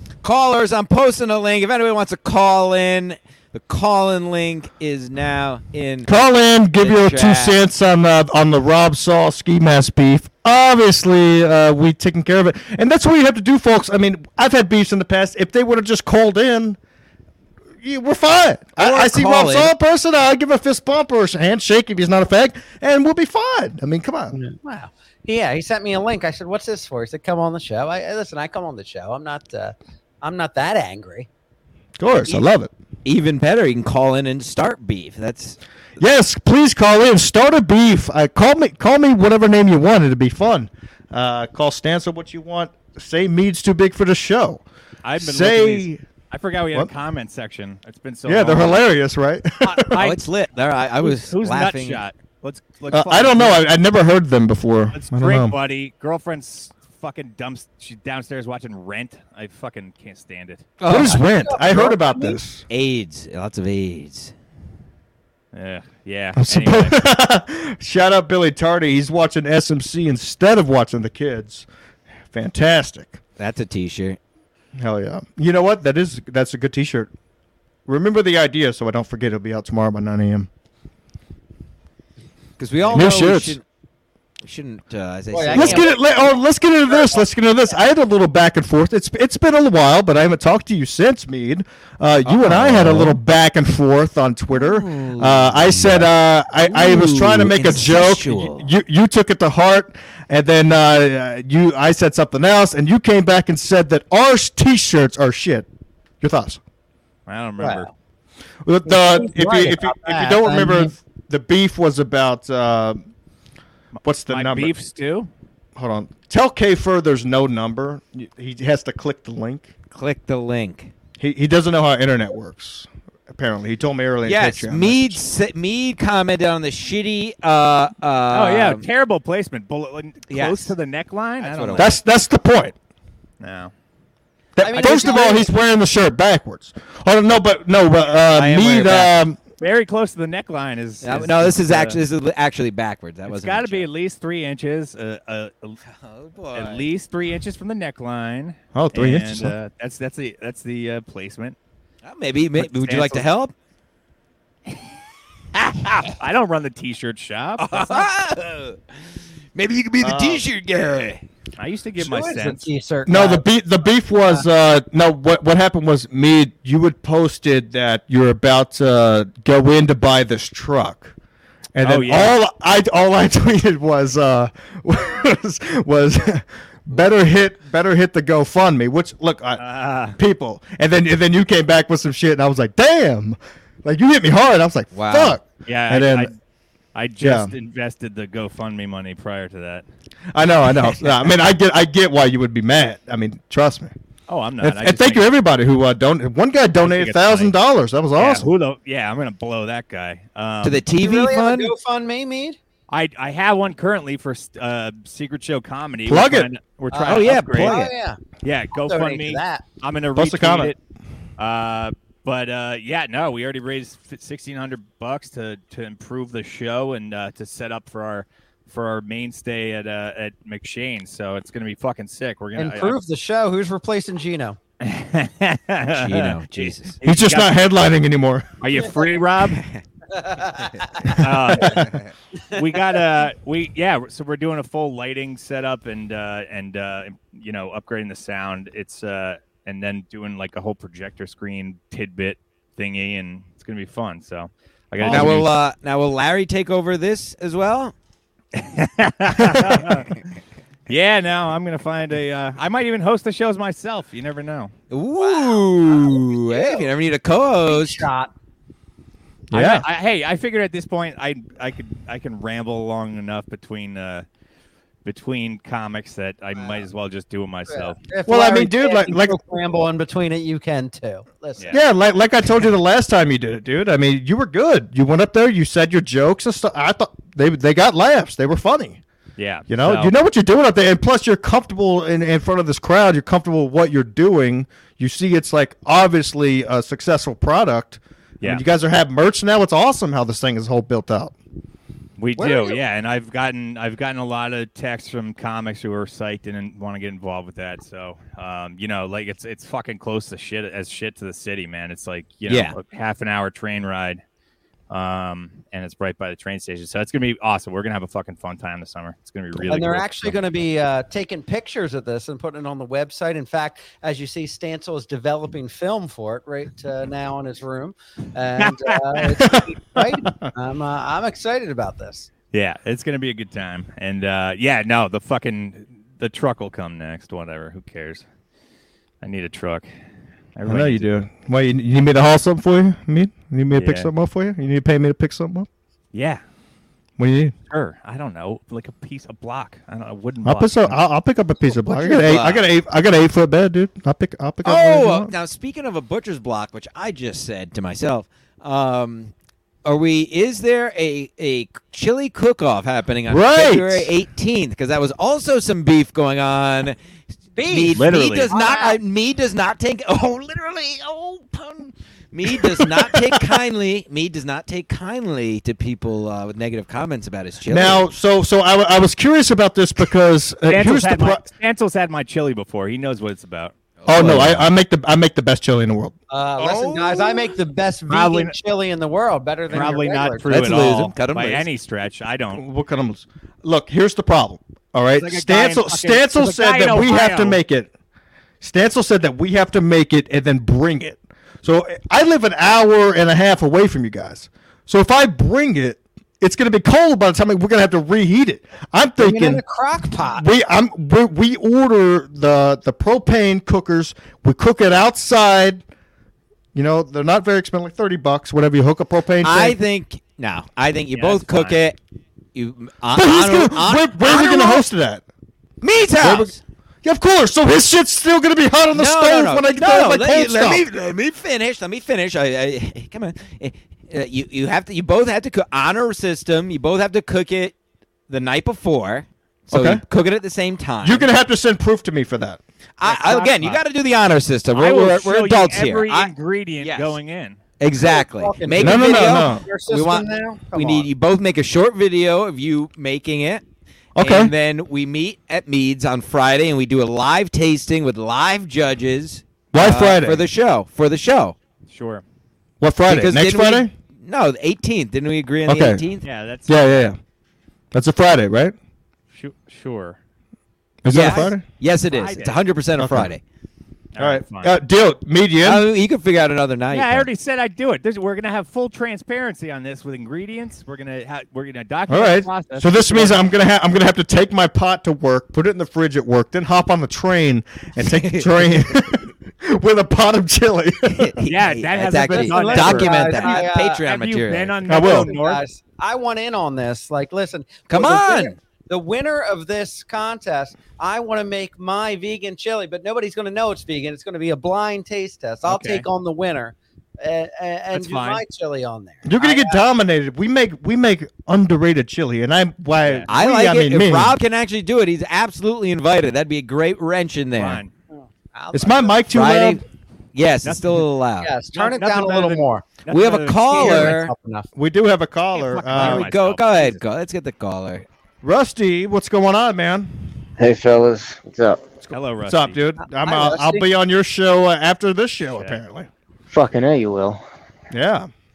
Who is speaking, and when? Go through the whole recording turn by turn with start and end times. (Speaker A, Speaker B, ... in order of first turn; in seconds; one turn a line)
Speaker A: 0.2-6.2
Speaker B: 6.0-16.8
Speaker A: 6.8-7.5
Speaker B: 17.8-24.4
Speaker A: 18.8-19.7
Speaker C: 24.3-31.3
Speaker B: 32.0-32.7
Speaker A: 32.1-32.5
Speaker A: 33.0-35.6
Speaker B: 36.0-44.6
Speaker D: 45.0-48.8
Speaker B: 45.2-46.0
Speaker B: 48.2-50.1
Speaker D: 49.6-50.2
Speaker A: 49.9-52.0
Speaker D: 51.0-53.6
Speaker B: 52.9-55.6
Speaker D: 54.9-60.7
Speaker A: 60.8-61.2
Speaker B: 60.8-62.6
Speaker C: 61.1-62.4
Speaker A: 62.7-64.3
Speaker D: 65.5-67.0
Speaker B: 66.3-71.7
Speaker B: 72.3-73.2
Speaker A: 73.4-74.2
Speaker B: 74.8-77.1
Speaker B: 77.8-80.5
Speaker A: 82.6-83.6
Speaker B: 82.9-83.6
Speaker A: 84.4-85.9
Speaker C: 85.3-86.0
Speaker B: 85.5-105.7
Speaker C: 86.9-87.2
Speaker A: 92.2-93.2
Speaker A: 94.5-98.7
Speaker B: 106.2-106.6
Speaker D: 107.3-107.9
Speaker C: 107.6-107.9
Speaker B: 108.6-113.0
Speaker C: 108.8-110.9
Speaker D: 114.0-115.3
Speaker B: 114.0-114.7
Speaker B: 115.8-119.7
Speaker A: 119.9-120.9
Speaker B: 121.2-125.2
Speaker A: 124.2-128.8
Speaker D: 128.3-131.9
Speaker A: 130.3-130.7
Speaker A: 131.4-131.9
Speaker B: 131.8-132.8
Speaker D: 133.4-133.7
Speaker B: 134.6-139.4
Speaker C: 134.6-135.5
Speaker D: 134.8-135.3
Speaker D: 138.3-142.0
Speaker A: 141.0-143.9
Speaker D: 143.3-145.8
Speaker A: 145.8-146.8
Speaker D: 146.5-151.6
Speaker B: 148.8-149.5
Speaker A: 152.0-153.5
Speaker D: 152.6-153.2
Speaker A: 155.6-156.1
Speaker D: 156.0-158.1
Speaker A: 157.6-161.2
Speaker B: 160.0-160.4
Speaker D: 161.6-162.7
Speaker C: 162.0-163.5
Speaker B: 163.1-171.1
Speaker B: 171.7-179.6
Speaker D: 171.8-172.4
Speaker D: 179.6-180.2
Speaker B: 180.1-186.3
Speaker A: 184.9-185.4
Speaker D: 185.7-186.3
Speaker D: 186.9-189.8
Speaker B: 187.2-187.5
Speaker B: 190.3-193.9
Speaker D: 194.3-195.3
Speaker B: 194.6-198.5
Speaker D: 196.8-197.5
Speaker D: 198.1-200.8
Speaker A: 200.6-201.7
Speaker C: 201.0-202.6
Speaker D: 202.9-207.8
Speaker B: 206.1-206.5
Speaker C: 206.9-208.2
Speaker A: 207.1-207.9
Speaker D: 208.4-210.8
Speaker C: 208.8-209.6
Speaker B: 210.2-210.7
Speaker D: 211.4-223.0
Speaker C: 222.6-224.6
Speaker D: 224.8-227.6
Speaker A: 225.9-226.9
Speaker B: 227.0-228.5
Speaker D: 228.6-229.6
Speaker C: 230.1-231.3
Speaker D: 231.0-232.0
Speaker B: 231.5-231.9
Speaker D: 232.5-245.5
Speaker B: 245.0-245.5
Speaker A: 245.0-247.9
Speaker D: 248.5-250.1
Speaker B: 249.4-250.0
Speaker D: 250.9-254.7
Speaker A: 254.9-258.1
Speaker C: 255.2-256.9
Speaker C: 257.6-258.3
Speaker B: 259.5-259.9
Speaker D: 259.5-264.2
Speaker D: 265.0-268.0
Speaker C: 266.6-266.9
Speaker C: 267.7-271.8
Speaker B: 268.3-269.4
Speaker B: 271.7-279.0
Speaker D: 279.4-280.1
Speaker B: 279.7-291.4
Speaker D: 292.2-304.2
Speaker C: 292.4-292.8
Speaker A: 302.5-302.8
Speaker D: 304.9-310.4
Speaker C: 309.7-322.3
Speaker D: 318.6-319.2
Speaker B: 319.4-320.5
Speaker D: 322.5-328.2
Speaker D: 329.2-329.9
Speaker D: 330.6-331.1
Speaker B: 330.6-335.7
Speaker D: 333.8-334.1
Speaker D: 336.1-336.4
Speaker B: 337.2-337.5
Speaker D: 337.7-341.0
Speaker B: 340.4-345.3
Speaker A: 341.7-342.6
Speaker A: 344.6-349.3
Speaker A: 349.9-356.9
Speaker B: 353.3-354.1
Speaker C: 357.6-359.0
Speaker A: 357.6-368.0
Speaker D: 357.9-358.5
Speaker B: 362.5-363.6
Speaker B: 367.7-371.4
Speaker D: 370.7-374.6
Speaker A: 374.0-374.6
Speaker B: 374.1-376.1
Speaker C: 376.3-380.6
Speaker A: 376.6-377.5
Speaker D: 378.1-378.5
Speaker D: 379.7-382.6
Speaker A: 380.5-381.6
Speaker B: 382.5-387.9
Speaker D: 385.2-387.6
Speaker B: 388.6-399.6
Speaker C: 399.2-400.4
Speaker B: 400.2-405.8
Speaker B: 406.7-409.8
Speaker A: 409.4-412.0
Speaker D: 411.1-411.8
Speaker A: 412.5-414.8
Speaker B: 413.1-415.2
Speaker A: 415.8-416.6
Speaker B: 416.2-420.9
Speaker A: 418.9-427.8
Speaker A: 428.3-431.2
Speaker B: 429.7-430.0
Speaker B: 431.0-432.6
Speaker A: 433.0-437.2
Speaker D: 433.0-433.8
Speaker D: 434.7-437.6
Speaker A: 437.8-443.6
Speaker C: 437.9-441.1
Speaker B: 438.8-439.6
Speaker B: 444.1-444.5
Speaker A: 444.2-451.6
Speaker B: 449.7-450.4
Speaker D: 451.9-452.2
Speaker B: 452.8-453.9
Speaker A: 453.1-456.2
Speaker B: 455.7-456.0
Speaker D: 456.2-457.1
Speaker B: 456.7-457.2
Speaker B: 457.9-458.8
Speaker D: 459.3-460.2
Speaker B: 461.0-461.6
Speaker A: 461.1-463.4
Speaker D: 461.1-461.5
Speaker D: 462.1-462.6
Speaker B: 463.0-463.3
Speaker D: 464.1-464.8
Speaker B: 464.2-465.9
Speaker A: 465.6-467.3
Speaker D: 466.9-473.4
Speaker B: 472.1-481.4
Speaker A: 478.0-478.7
Speaker A: 481.1-484.8
Speaker D: 481.4-485.6
Speaker C: 482.3-484.1
Speaker B: 484.9-485.3
Speaker C: 484.9-499.8
Speaker A: 487.9-488.6
Speaker D: 495.6-496.0
Speaker D: 497.9-498.4
Speaker B: 499.2-504.4
Speaker A: 503.3-507.8
Speaker D: 507.5-507.9
Speaker C: 508.1-509.2
Speaker B: 508.7-509.8
Speaker A: 509.3-509.8
Speaker A: 510.3-511.5
Speaker D: 510.6-511.1
Speaker C: 511.4-512.9
Speaker D: 511.7-514.2
Speaker A: 513.1-514.3
Speaker C: 513.7-514.7
Speaker B: 514.8-516.3
Speaker D: 515.5-517.0
Speaker A: 515.9-518.1
Speaker B: 518.4-520.4
Speaker E: 520.6-521.9
Speaker D: 522.1-522.8
Speaker B: 522.4-526.1
Speaker C: 523.2-523.8
Speaker E: 526.5-527.4
Speaker B: 527.9-528.3